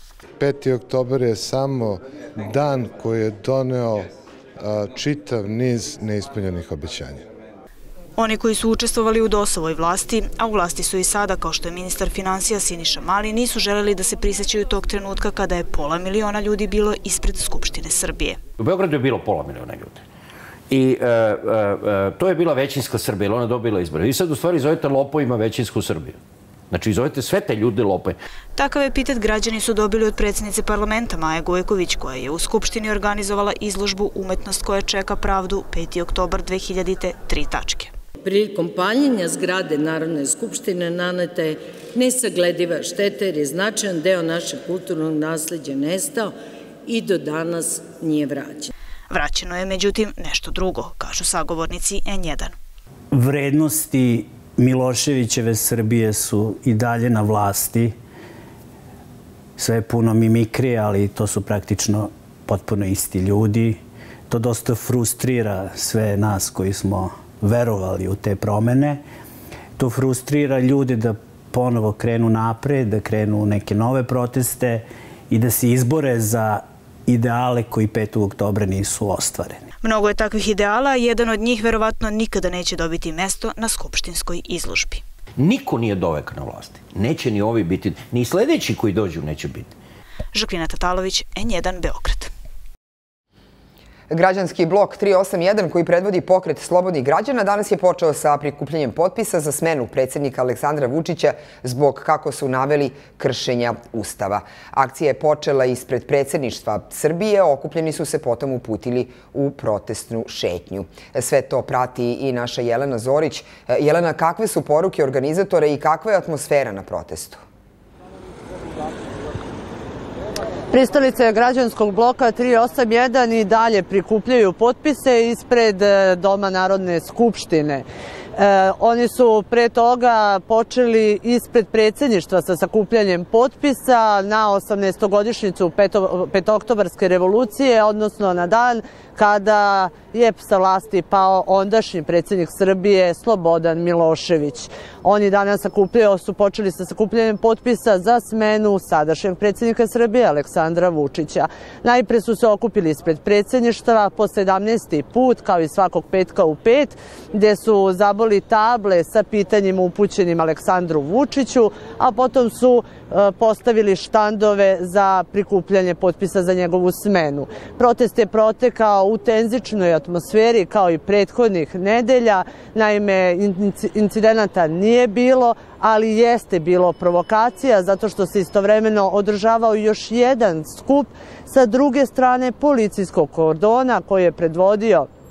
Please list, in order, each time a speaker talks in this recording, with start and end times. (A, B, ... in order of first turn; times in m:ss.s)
0:00.4-0:07.3 A
0:08.2-0:18.4 B
0:18.6-0:20.0 C
0:20.7-0:26.2 C
0:26.7-0:28.2 C
0:28.6-0:37.9 B
0:38.2-0:46.4 D
0:46.9-0:48.7 D
0:49.1-0:52.5 B
0:53.1-0:58.0 E
0:59.6-1:09.0 E
1:09.8-1:19.7 E
1:19.8-1:25.0 B
1:25.4-1:29.7 C
1:30.3-1:32.3 B
1:34.1-1:57.4 F
2:00.7-3:05.1 G